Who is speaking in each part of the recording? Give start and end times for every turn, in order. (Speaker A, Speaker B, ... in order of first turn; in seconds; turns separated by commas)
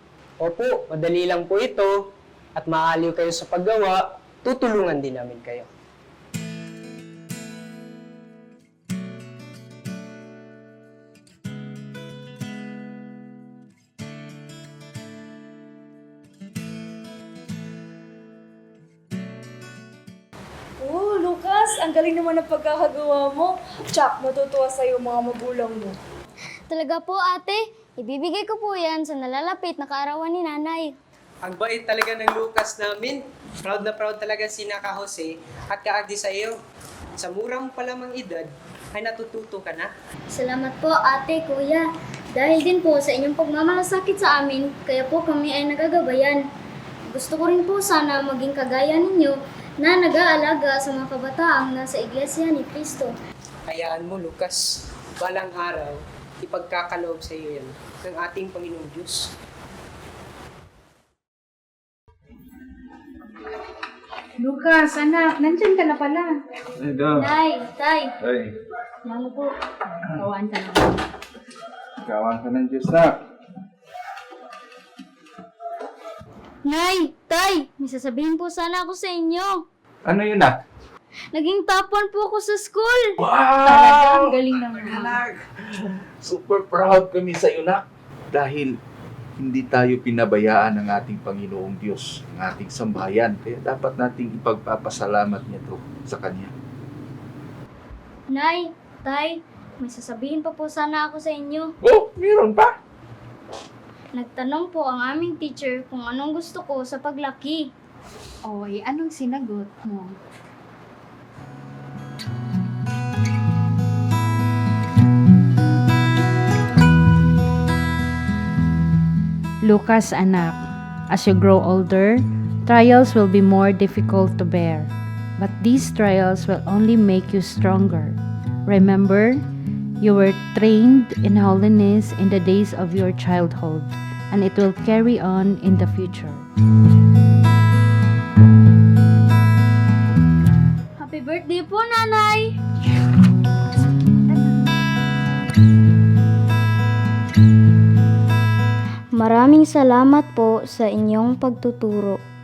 Speaker A: 0.4-1.9, Speaker A: 2.6-5.7, Speaker B: 20.8-26.0, Speaker C: 26.7-30.9, Speaker A: 31.4-36.5, Speaker A: 37.2-39.9, Speaker C: 40.3-46.4, Speaker C: 47.1-53.1, Speaker A: 53.7-54.5, Speaker A: 55.2-55.9, Speaker A: 56.5-59.1, Speaker D: 64.4-66.3, Speaker E: 66.8-67.3, Speaker C: 67.2-68.1, Speaker E: 68.2-68.5, Speaker C: 69.0-69.5, Speaker D: 70.2-70.9, Speaker E: 72.0-73.1, Speaker C: 76.7-79.6, Speaker E: 80.1-80.5, Speaker C: 81.3-83.1, Speaker E: 83.2-88.7, Speaker E: 89.4-96.5, Speaker C: 98.3-101.7, Speaker E: 101.8-102.7, Speaker C: 104.1-107.7, Speaker D: 108.4-110.1, Speaker D: 119.6-129.4, Speaker D: 130.0-136.5, Speaker C: 141.0-142.6, Speaker C: 149.1-152.2